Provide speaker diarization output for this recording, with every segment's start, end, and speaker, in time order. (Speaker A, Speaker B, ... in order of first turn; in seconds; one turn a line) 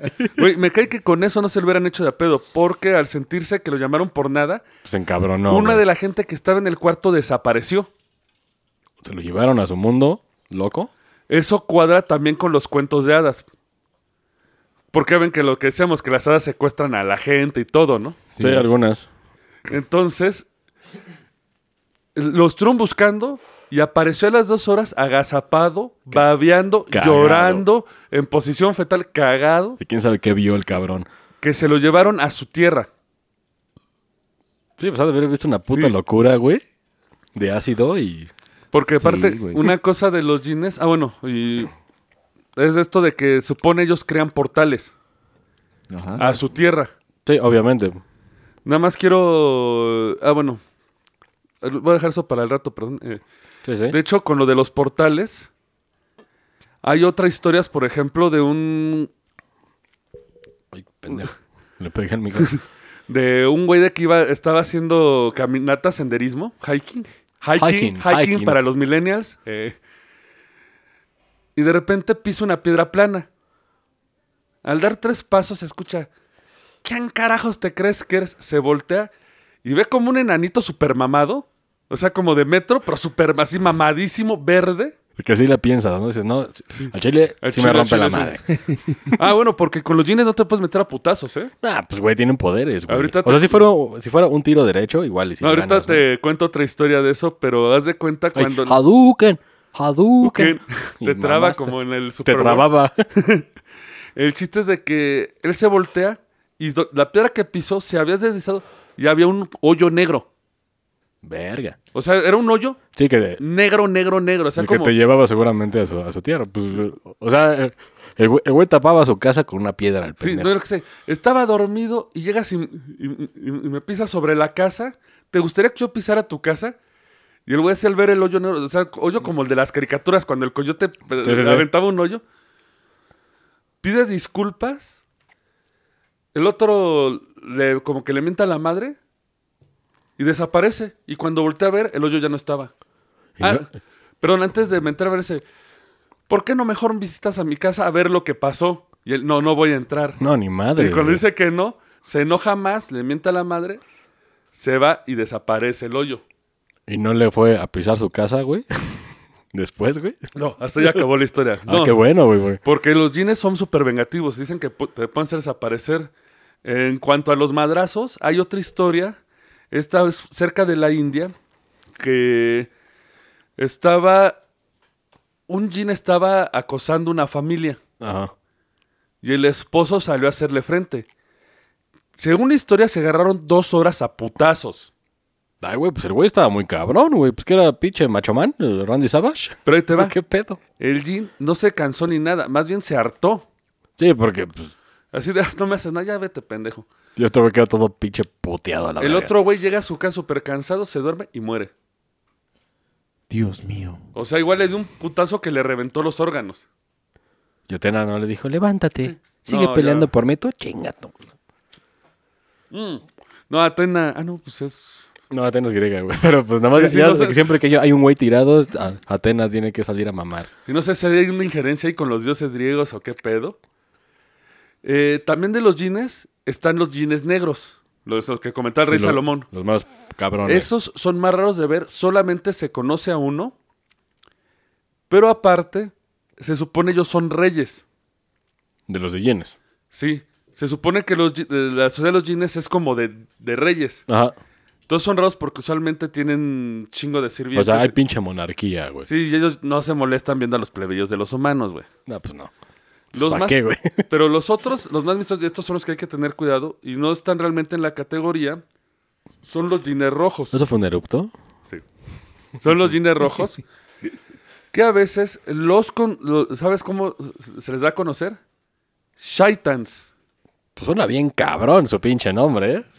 Speaker A: 0.3-4.7
Speaker B: 4.8-5.8
Speaker A: 5.5-7.9
Speaker B: 9.0-10.9
Speaker A: 11.3-13.5
Speaker A: 14.9-18.2
Speaker C: 18.3-18.7
Speaker B: 18.4-19.1
Speaker A: 19.7-20.5
Speaker A: 22.1-29.8
Speaker B: 26.9-27.7
Speaker B: 29.8-31.1
Speaker A: 31.4-32.9
Speaker B: 34.8-36.6
Speaker B: 37.3-38.3
Speaker A: 38.7-41.7
Speaker C: 39.0-39.7
Speaker A: 42.6-44.9
Speaker C: 45.9-46.2
Speaker A: 46.2-46.9
Speaker B: 47.2-48.0
Speaker A: 48.6-50.6
Speaker A: 51.6-53.2
Speaker B: 53.6-54.0
Speaker A: 53.9-55.5
Speaker A: 56.8-59.1
Speaker B: 60.7-62.5
Speaker A: 63.1-69.8
Speaker B: 67.6-68.6
Speaker A: 71.6-73.3
Speaker A: 74.6-76.1
Speaker A: 76.8-79.1
Speaker A: 79.6-85.0
Speaker B: 85.2-88.4
Speaker A: 86.7-88.4
Speaker C: 88.7-89.1
Speaker A: 89.2-91.5
Speaker B: 91.6-96.1
Speaker A: 92.9-93.6
Speaker A: 95.4-98.8
Speaker B: 98.3-103.0
Speaker A: 100.2-103.5
Speaker A: 104.2-110.3
Speaker B: 111.2-111.8
Speaker A: 111.9-112.8
Speaker B: 112.9-113.4
Speaker A: 113.4-115.0
Speaker B: 114.6-120.5
Speaker A: 120.2-126.8
Speaker A: 127.5-132.2
Speaker B: 131.2-131.7
Speaker A: 133.8-135.0
Speaker A: 136.3-139.0
Speaker A: 140.2-142.7
Speaker B: 143.4-143.7
Speaker A: 143.4-143.7
Speaker A: 144.2-145.4
Speaker A: 146.3-150.2
Speaker B: 150.2-151.2
Speaker A: 150.8-153.8
Speaker A: 154.6-156.2
Speaker B: 156.9-160.2
Speaker A: 160.3-162.0
Speaker B: 161.7-162.6
Speaker A: 162.6-166.1
Speaker A: 166.6-169.2
Speaker A: 169.7-171.3
Speaker A: 172.0-172.7
Speaker A: 173.6-174.4
Speaker A: 175.5-177.8
Speaker B: 178.0-178.3
Speaker A: 179.2-181.1
Speaker A: 182.2-184.9
Speaker B: 185.6-190.6
Speaker A: 189.7-190.1
Speaker A: 190.8-193.4
Speaker B: 194.0-194.7
Speaker A: 195.1-196.9
Speaker B: 197.2-199.3
Speaker A: 199.0-201.7
Speaker C: 203.3-204.0
Speaker A: 204.2-206.7
Speaker B: 207.7-211.2
Speaker A: 209.0-210.1
Speaker A: 212.7-215.1
Speaker B: 215.3-220.5
Speaker A: 216.7-217.5
Speaker A: 220.7-223.6
Speaker A: 224.8-229.5
Speaker B: 228.9-230.7
Speaker A: 230.4-233.6
Speaker A: 235.1-237.8
Speaker B: 238.9-239.6
Speaker A: 239.9-244.0
Speaker B: 244.1-244.3
Speaker A: 244.9-247.9
Speaker B: 247.5-249.1
Speaker A: 249.1-251.9
Speaker B: 252.1-252.5
Speaker A: 253.1-258.6
Speaker B: 253.1-254.1
Speaker A: 259.5-260.6
Speaker B: 260.5-261.3
Speaker A: 262.6-263.6
Speaker A: 264.7-268.4
Speaker A: 269.2-270.1
Speaker B: 270.8-272.9